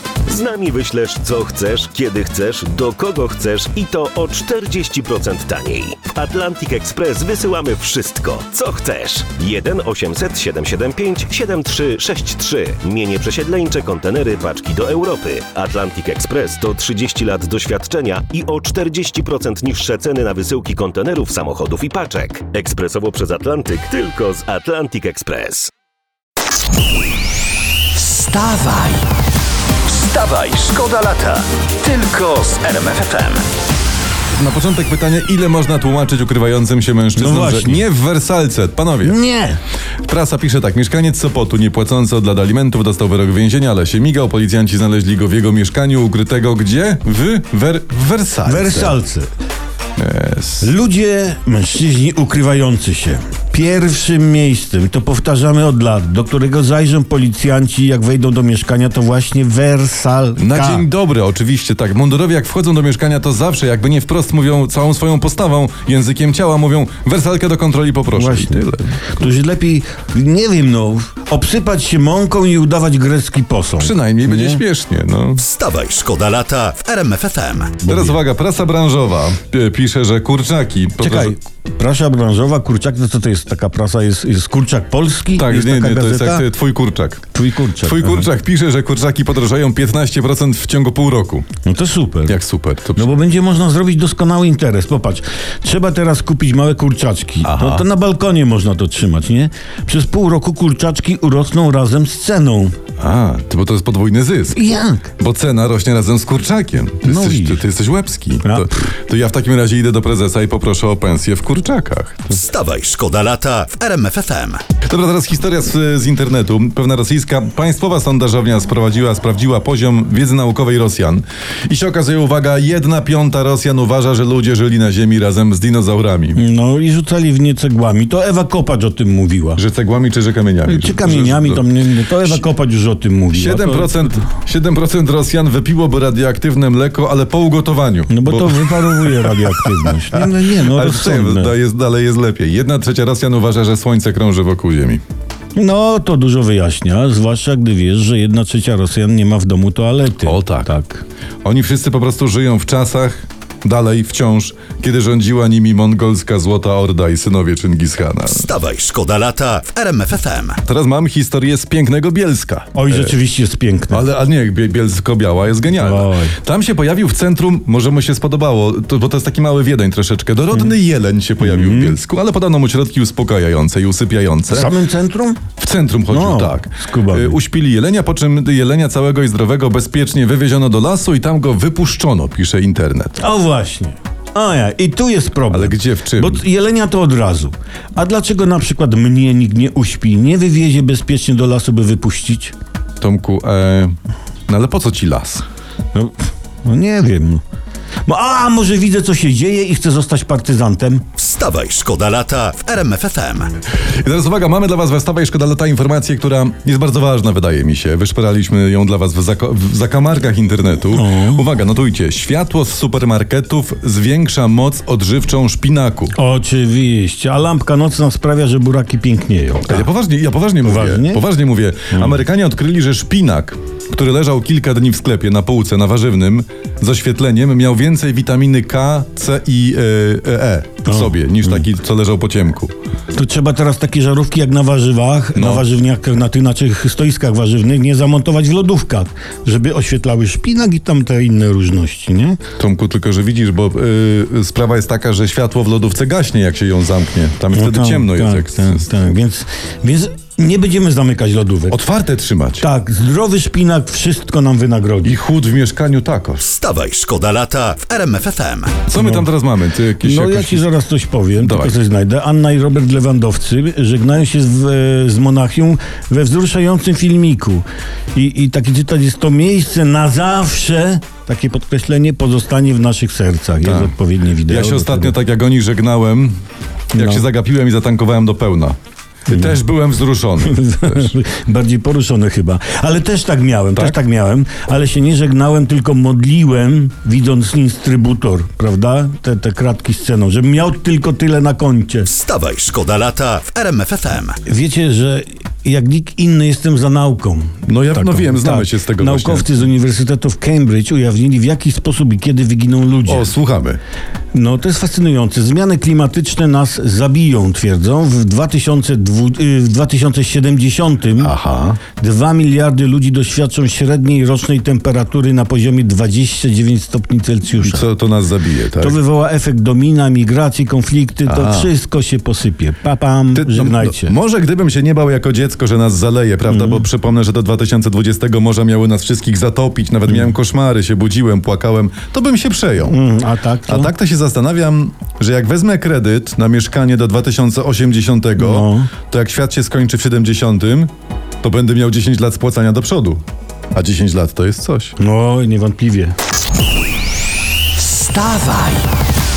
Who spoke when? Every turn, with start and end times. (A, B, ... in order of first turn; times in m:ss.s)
0:00.3-0:25.7 A
0:28.0-0:28.4 A
0:28.1-0:29.0 B
0:29.9-0:33.4 B
0:29.9-0:30.4 A
0:31.8-0:32.2 A
0:34.4-0:39.2 C
0:37.2-0:37.8 D
0:39.0-0:39.6 D
0:40.0-0:49.0 C
0:48.4-0:49.3 D
0:50.0-0:50.7 C
0:50.6-1:00.9 D
1:00.4-1:09.1 C
1:08.1-1:14.6 D
1:13.8-1:15.4 C
1:15.4-1:17.8 B
1:17.8-1:18.2 D
1:17.8-1:21.4 C
1:21.0-1:26.5 D
1:25.3-1:27.2 C
1:27.3-1:28.3 D
1:27.8-1:31.5 C
1:31.6-1:32.4 D
1:32.3-1:33.1 C
1:33.0-1:42.8 D
1:37.4-1:37.8 C
1:43.0-1:44.6 C
1:44.5-1:45.1 D
1:45.2-1:52.4 C
1:47.0-1:47.6 D
1:52.3-1:54.6 B
1:54.8-2:06.4 C
2:06.4-2:09.6 D
2:09.6-2:11.7 C
2:10.7-2:14.2 D
2:13.3-2:19.4 C
2:18.1-2:21.6 D
2:19.9-2:25.0 C
2:25.6-2:31.0 D
2:30.2-2:30.7 C
2:31.4-2:38.5 C
2:38.3-2:40.6 B
2:40.6-2:43.2 C
2:42.7-2:44.1 D
2:43.9-2:54.7 C
2:45.7-2:46.4 D
2:51.4-2:52.0 D
2:54.5-2:55.4 D
2:55.6-3:03.2 C
2:56.1-2:57.4 D
3:03.2-3:12.5 D
3:05.5-3:06.4 C
3:13.0-3:14.0 C
3:14.5-3:15.4 C
3:15.9-3:17.4 D
3:18.1-3:21.1 D
3:21.2-3:23.5 B
3:24.0-3:36.2 C
3:30.9-3:31.4 D
3:36.2-3:39.9 D
3:39.7-3:52.7 C
3:40.6-3:41.2 D
3:41.9-3:42.2 D
3:50.8-3:51.7 D
3:53.1-4:02.4 D
3:55.4-3:55.7 C
4:02.6-4:08.9 C
4:07.5-4:11.8 D
4:11.7-4:12.7 C
4:12.6-4:15.2 D
4:15.0-4:16.4 C
4:16.4-4:18.8 B
4:18.9-4:20.7 C
4:19.0-4:19.3 D
4:20.0-4:35.2 D
4:21.4-4:21.8 C
4:33.6-4:36.4 C
4:36.9-4:41.1 C
4:36.9-4:37.3 D
4:39.3-4:39.6 D
4:40.4-4:52.1 D
4:52.1-4:54.4 B
4:54.4-5:03.3 D
4:57.6-4:59.7 C
5:03.1-5:03.8 C
5:04.3-5:11.4 D
5:11.2-5:11.8 C
5:11.9-5:17.8 D
5:17.6-5:19.0 C
5:18.8-5:24.2 D
5:21.3-5:21.7 C
5:23.4-5:33.0 C
5:26.5-5:26.9 D
5:32.8-5:33.9 D
5:33.7-5:40.9 C
5:38.4-5:38.9 D
5:41.4-5:43.2 C
5:43.7-5:45.0 C
5:45.0-5:46.2 D
5:47.8-5:48.9 B